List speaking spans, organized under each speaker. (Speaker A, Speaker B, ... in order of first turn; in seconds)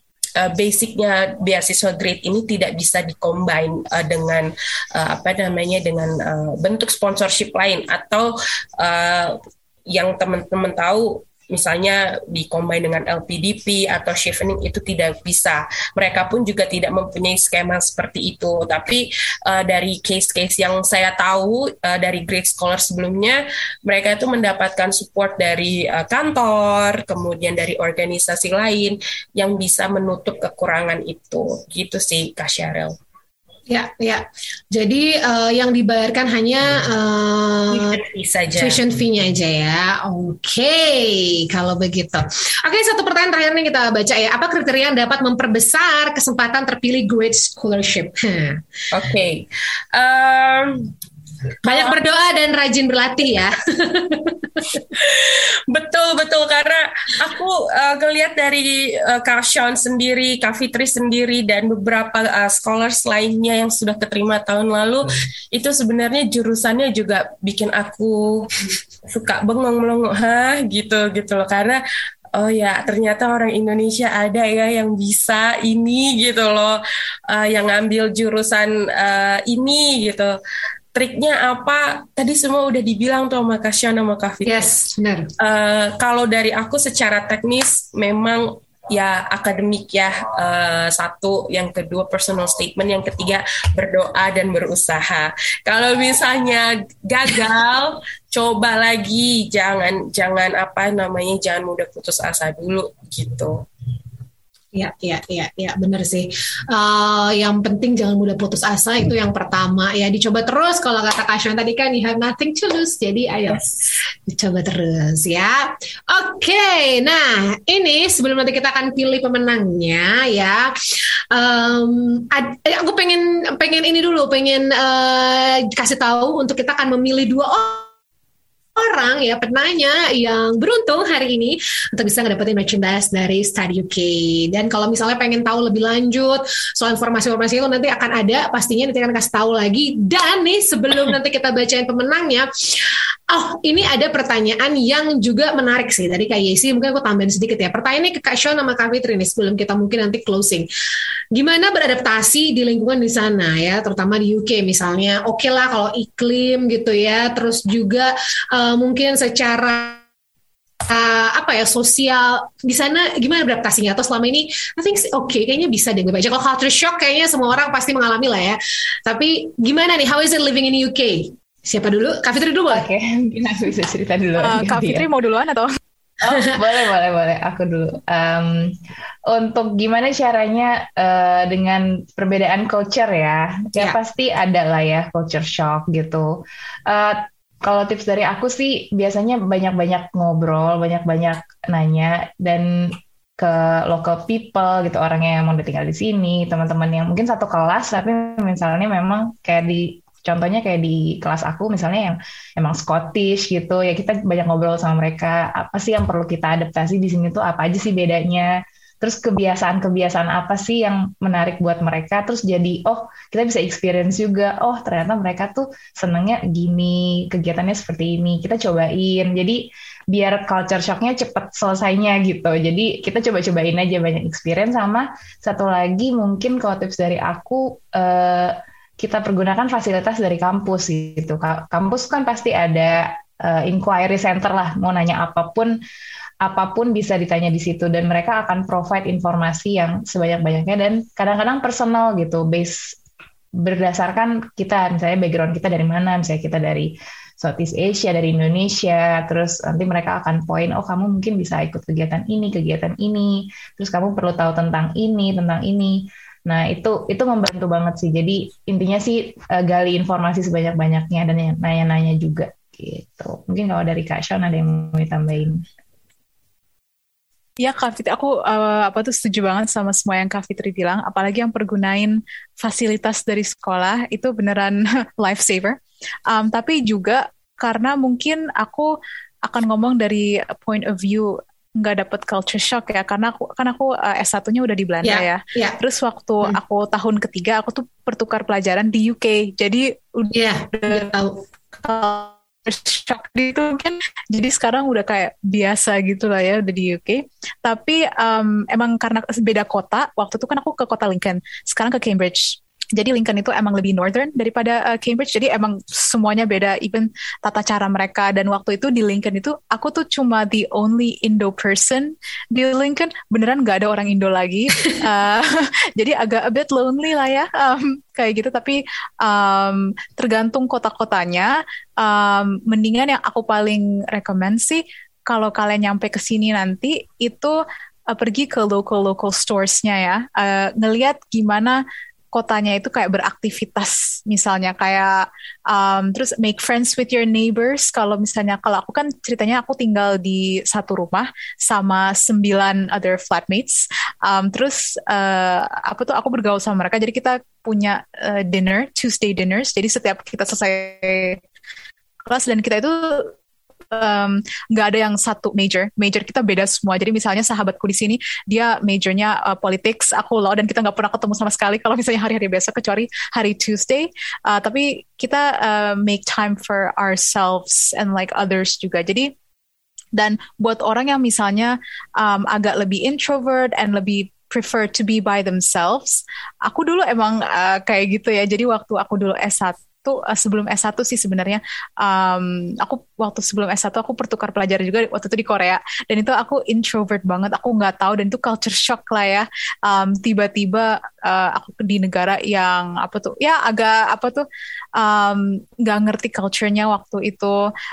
Speaker A: 0.4-33.0, 37.7-38.8, 48.9-50.9, 51.7-52.0, 54.9-71.8, 72.3-80.4, 80.9-84.7, 85.4-103.7
Speaker B: 33.7-38.0, 38.6-48.6, 51.6-54.8, 84.5-85.3, 104.7-120.7, 121.3-127.9, 128.8-150.7, 151.3-160.0, 160.9-172.9, 176.2-176.6, 285.0-285.8, 290.3-291.4
Speaker C: 172.7-175.1, 176.2-178.8, 179.3-235.7, 236.4-243.0, 243.6-265.6
Speaker D: 174.4-175.7, 267.6-275.8, 276.3-278.9, 279.5-291.1, 291.7-331.8, 332.3-351.4, 352.3-353.4, 353.9-369.3, 370.2-394.4, 395.0-397.6